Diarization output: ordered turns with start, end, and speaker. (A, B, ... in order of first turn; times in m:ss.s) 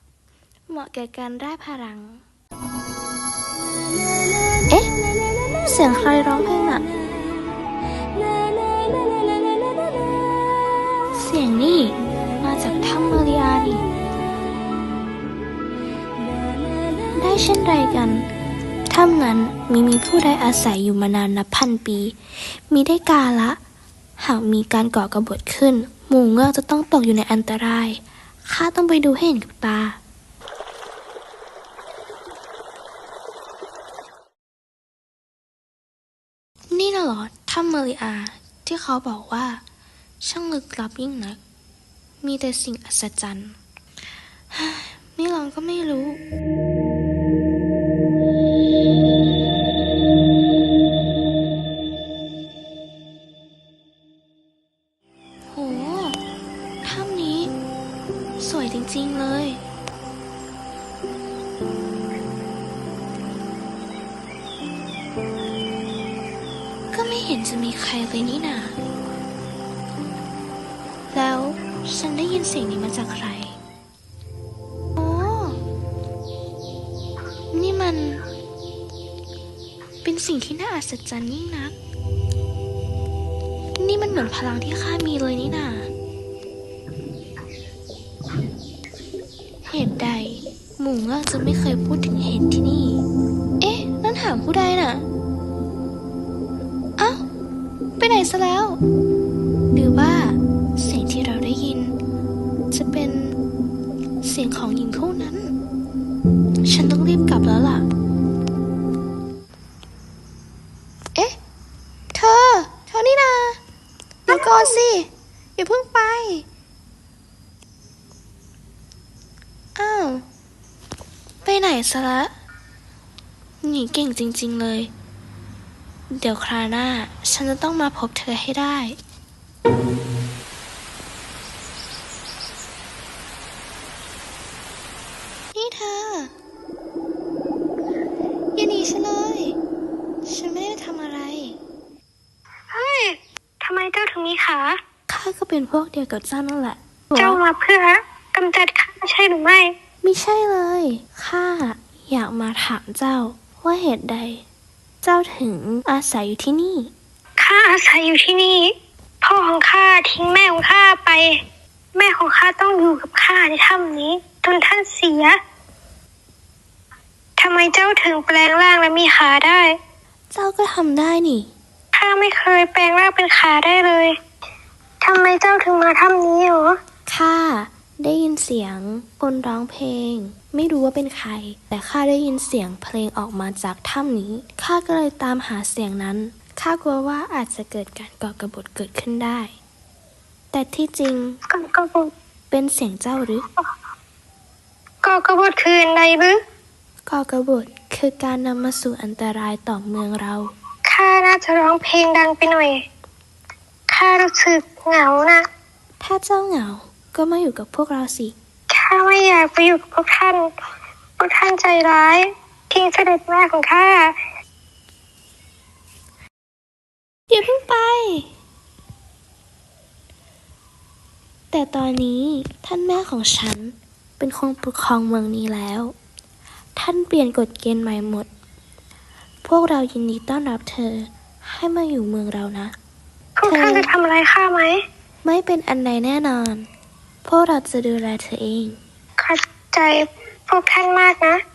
0:00.7-0:02.2 A
0:05.6-0:06.8 A
0:11.1-0:13.8 A
0:17.1-0:18.2 A
0:18.9-0:23.6 A
0:24.2-0:30.0 A
0:36.7-0:39.6 A
0:40.2-0:41.4 A
0:42.2-0:43.6 A
0:44.5-0:46.2 A
0:55.5-0:56.2 A
0:56.8-0:57.5 A
0:58.4-0:59.6 A
1:06.9-1:08.8 A
1:11.1-1:13.6 A
1:15.0-1:15.6 A
1:17.5-1:18.2 A
1:20.0-1:21.8 A
1:23.8-1:25.9 A
1:29.7-1:33.0 A
1:33.6-1:35.1 A
1:37.0-1:37.2 A
1:38.0-1:38.8 A
1:39.7-1:42.0 A
1:42.7-1:43.4 A
1:44.2-1:45.5 A
1:46.6-1:47.9 A
1:52.1-1:53.6 A
1:54.3-1:56.5 A
1:54.3-1:54.8 B
1:59.8-2:00.2 A
2:01.4-2:02.3 A
2:03.6-2:04.9 A
2:06.1-2:09.0 A
2:15.5-2:16.3 A
2:18.6-2:19.6 A
2:20.2-2:21.6 A
2:22.7-2:24.8 B
2:25.1-2:27.4 A
2:27.2-2:29.7 B
2:30.0-2:34.4 A
2:35.0-2:36.9 A
2:37.4-2:41.4 B
2:42.0-2:45.4 B
2:47.4-2:49.8 B
2:50.3-2:51.5 A
2:51.9-2:54.2 B
2:55.0-2:56.8 B
2:57.1-3:09.6 A
3:10.5-3:11.4 A
3:11.5-3:12.1 B
3:12.5-3:13.4 A
3:15.0-3:16.4 B
3:17.1-3:20.5 A
3:20.9-3:22.8 B
3:23.9-3:25.4 B
3:26.0-3:28.4 A
3:28.7-3:30.5 B
3:31.2-3:34.1 B
3:37.3-3:38.3 A
3:41.5-3:45.9 A
3:46.8-3:48.3 A
3:49.4-3:52.8 A
3:53.4-3:54.8 B
3:53.5-3:53.9 A
3:55.2-3:56.7 A
3:57.2-3:58.8 A
3:59.2-4:01.4 B